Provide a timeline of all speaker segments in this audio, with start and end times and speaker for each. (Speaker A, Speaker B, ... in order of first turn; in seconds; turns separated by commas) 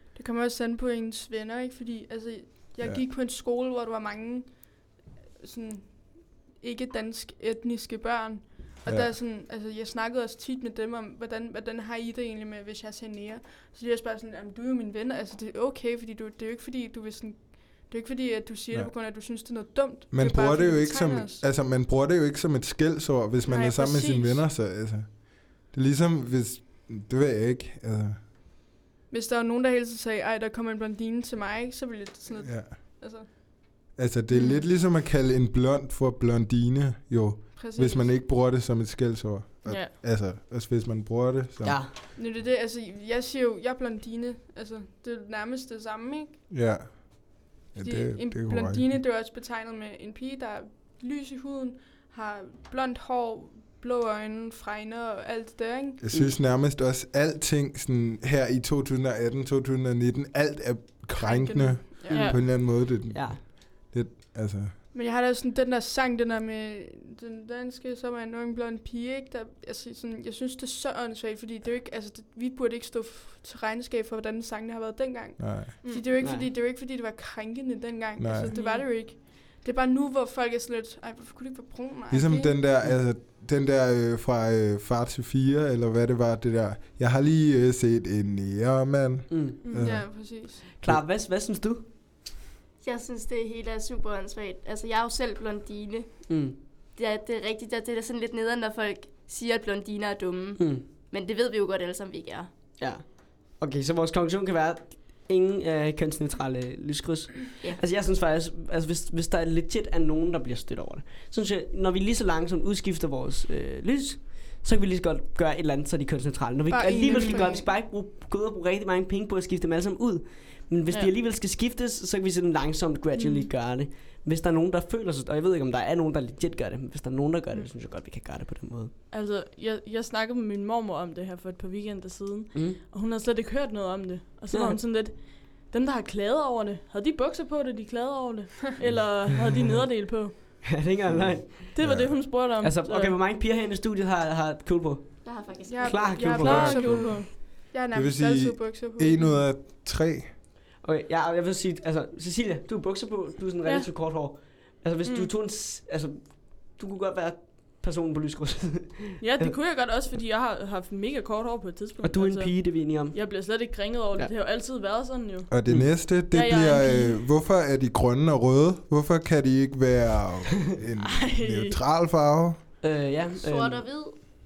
Speaker A: 0.1-21.4, Speaker B: 8.8-9.1, Speaker B: 20.1-28.3, Speaker A: 23.4-24.4, Speaker A: 29.1-34.6, Speaker B: 32.4-33.3, Speaker B: 33.9-41.9, Speaker A: 37.5-38.2, Speaker C: 39.6-39.9, Speaker D: 41.6-41.9, Speaker A: 42.1-46.4, Speaker B: 46.5-48.9, Speaker A: 47.8-56.0, Speaker B: 56.0-64.8, Speaker A: 61.1-62.3, Speaker C: 62.1-62.4, Speaker D: 62.2-63.4, Speaker A: 64.9-82.6, Speaker B: 75.4-75.8, Speaker C: 75.8-76.1, Speaker D: 76.2-76.5, Speaker B: 78.2-78.5, Speaker C: 78.5-79.0, Speaker B: 82.1-91.0, Speaker D: 89.3-89.6, Speaker C: 89.6-90.0, Speaker A: 89.7-90.7, Speaker D: 90.7-91.9, Speaker E: 92.8-102.5, Speaker D: 96.3-96.5, Speaker D: 100.6-100.8, Speaker D: 102.8-128.9, Speaker A: 116.7-117.7, Speaker C: 117.0-117.5, Speaker C: 123.1-123.5, Speaker C: 129.1-140.7, Speaker D: 132.5-132.8, Speaker D: 134.5-134.8, Speaker D: 140.2-141.8, Speaker B: 141.1-142.3, Speaker C: 141.7-143.2, Speaker D: 142.6-147.1, Speaker E: 145.2-146.4, Speaker A: 145.7-149.4, Speaker C: 146.3-147.3, Speaker B: 146.6-150.3, Speaker D: 150.8-159.5, Speaker C: 155.0-155.3, Speaker C: 159.2-167.2, Speaker D: 162.0-163.6, Speaker B: 165.5-172.6, Speaker C: 171.0-171.8, Speaker D: 172.8-173.9, Speaker E: 173.4-174.2